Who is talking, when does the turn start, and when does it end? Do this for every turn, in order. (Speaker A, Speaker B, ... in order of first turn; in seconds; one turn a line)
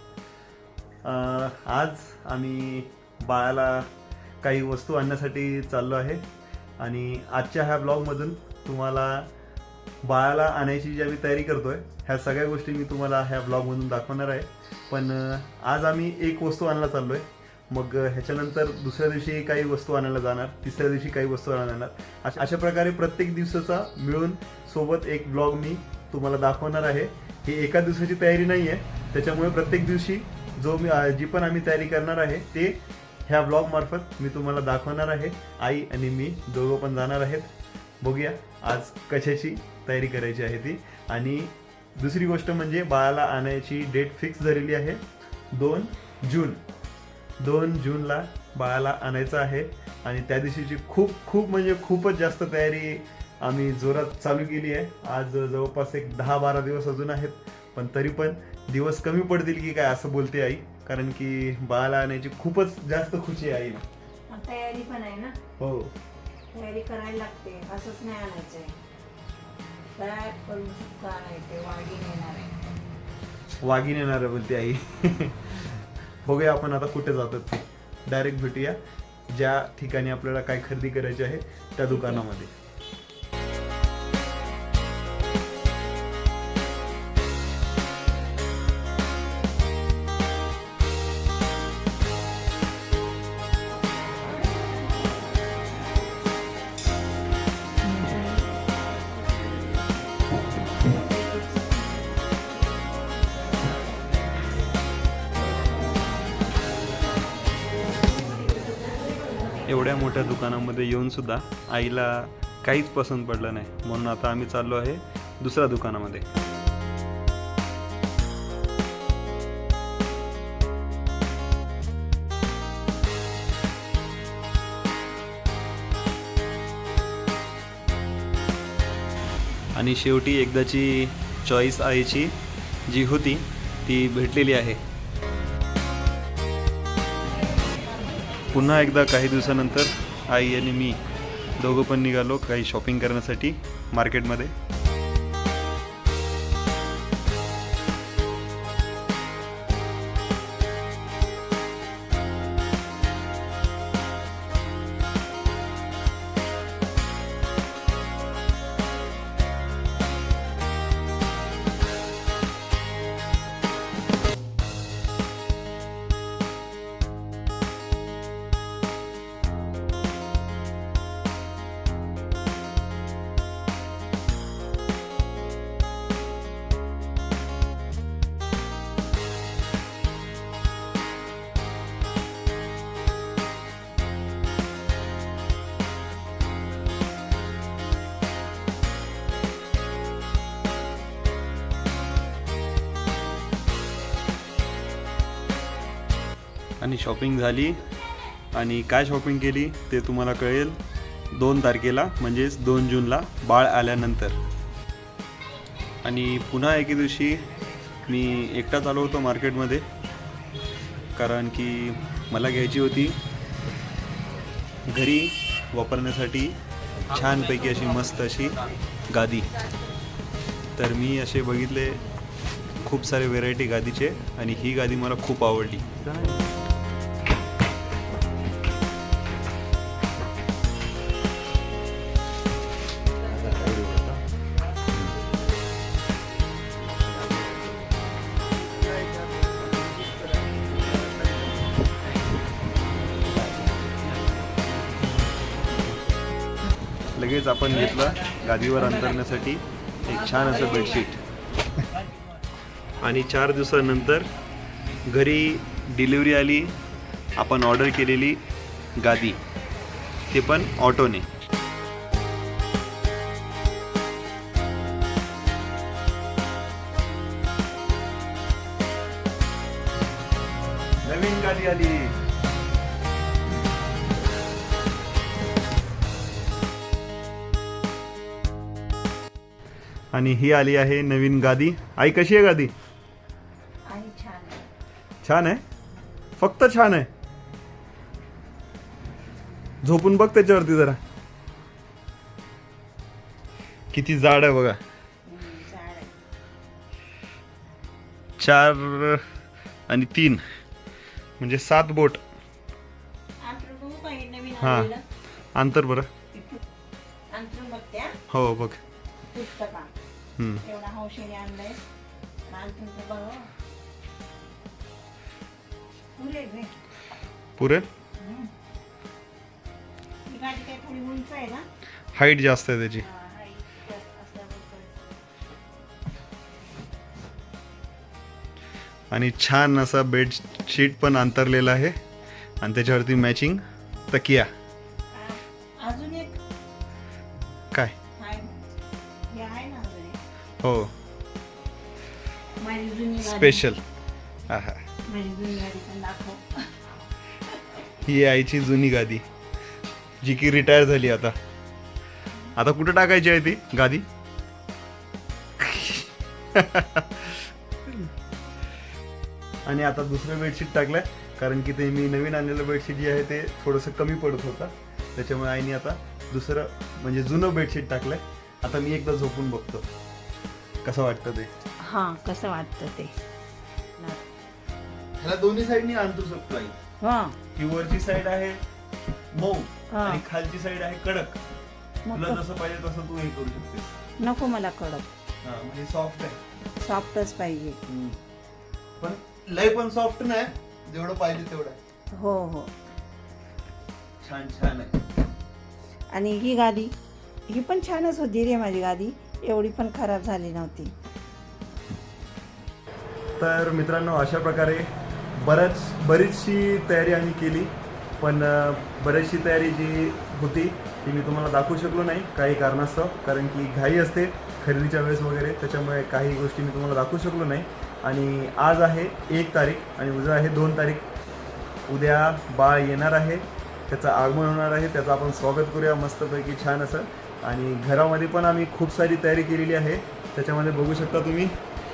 Speaker A: 1.0-3.9
Speaker A: 4.4-6.2
Speaker A: 6.8-9.3
Speaker A: 10.0-46.6
Speaker A: 47.4-63.8
Speaker B: 64.3-65.4
Speaker A: 65.6-65.9
Speaker B: 66.5-68.8
Speaker B: 70.0-72.6
Speaker A: 73.6-82.5
Speaker B: 81.9-82.2
Speaker B: 97.8-98.5
Speaker A: 109.7-116.2
Speaker A: 129.7-134.8
Speaker A: 138.5-141.0
Speaker A: 141.6-144.5
Speaker A: 196.8-197.8
Speaker A: 198.5-200.8
Speaker A: 201.3-204.4
Speaker A: 206.0-207.4
Speaker A: 208.0-209.8
Speaker A: 211.1-213.2
Speaker A: 214.9-216.6
Speaker A: 217.1-219.5
Speaker A: 220.8-222.0
Speaker A: 222.8-226.5
Speaker A: 233.2-234.2
Speaker A: 234.9-235.2
Speaker A: 237.1-237.7
Speaker A: 238.8-240.3
Speaker A: 240.9-241.2
Speaker A: 243.4-243.7
Speaker A: 247.1-251.2
Speaker A: 253.0-254.3
Speaker A: 255.1-256.7
Speaker A: 257.4-258.4
Speaker A: 259.0-259.4
Speaker A: 260.3-261.3
Speaker A: 271.0-272.1
Speaker A: 280.1-282.7
Speaker B: 283.9-284.6
Speaker A: 285.2-285.6
Speaker A: 286.4-287.1
Speaker A: 289.8-291.0
Speaker A: 293.9-294.8
Speaker B: 295.3-296.1
Speaker A: 298.4-299.2
Speaker A: 299.9-300.4
Speaker A: 301.4-302.2
Speaker B: 303.4-305.0
Speaker A: 304.6-304.9
Speaker A: 305.5-306.1
Speaker B: 306.3-306.6
Speaker B: 307.3-308.2
Speaker A: 308.3-308.8
Speaker B: 309.3-309.9
Speaker A: 310.4-310.6
Speaker B: 310.6-311.8
Speaker B: 312.5-313.5
Speaker B: 316.1-316.8
Speaker A: 317.6-317.9
Speaker B: 318.2-318.5
Speaker B: 320.3-321.7
Speaker A: 322.1-323.1
Speaker B: 323.0-325.0
Speaker A: 329.1-332.0
Speaker A: 332.6-334.5
Speaker B: 335.1-336.4
Speaker B: 338.2-338.6
Speaker B: 339.3-340.2
Speaker A: 340.6-340.9
Speaker B: 342.6-343.6
Speaker A: 343.2-343.8
Speaker A: 344.5-344.8
Speaker B: 345.0-346.7
Speaker A: 348.0-349.2
Speaker A: 350.2-351.4
Speaker A: 352.6-354.1
Speaker A: 355.6-358.1
Speaker A: 359.6-369.9
Speaker A: 370.8-371.5
Speaker B: 371.8-373.1
Speaker B: 374.0-374.2
Speaker A: 375.2-376.7
Speaker B: 377.0-377.4
Speaker A: 377.5-378.6
Speaker A: 379.3-381.4
Speaker B: 379.9-380.2
Speaker B: 382.1-382.4
Speaker A: 382.1-384.0
Speaker B: 384.2-385.1
Speaker A: 385.4-386.4
Speaker B: 386.8-387.8
Speaker A: 387.9-388.2
Speaker A: 389.0-391.8
Speaker B: 392.1-392.7
Speaker A: 394.2-395.0
Speaker B: 396.1-396.9
Speaker B: 397.5-400.9
Speaker A: 403.4-421.1
Speaker A: 421.9-431.5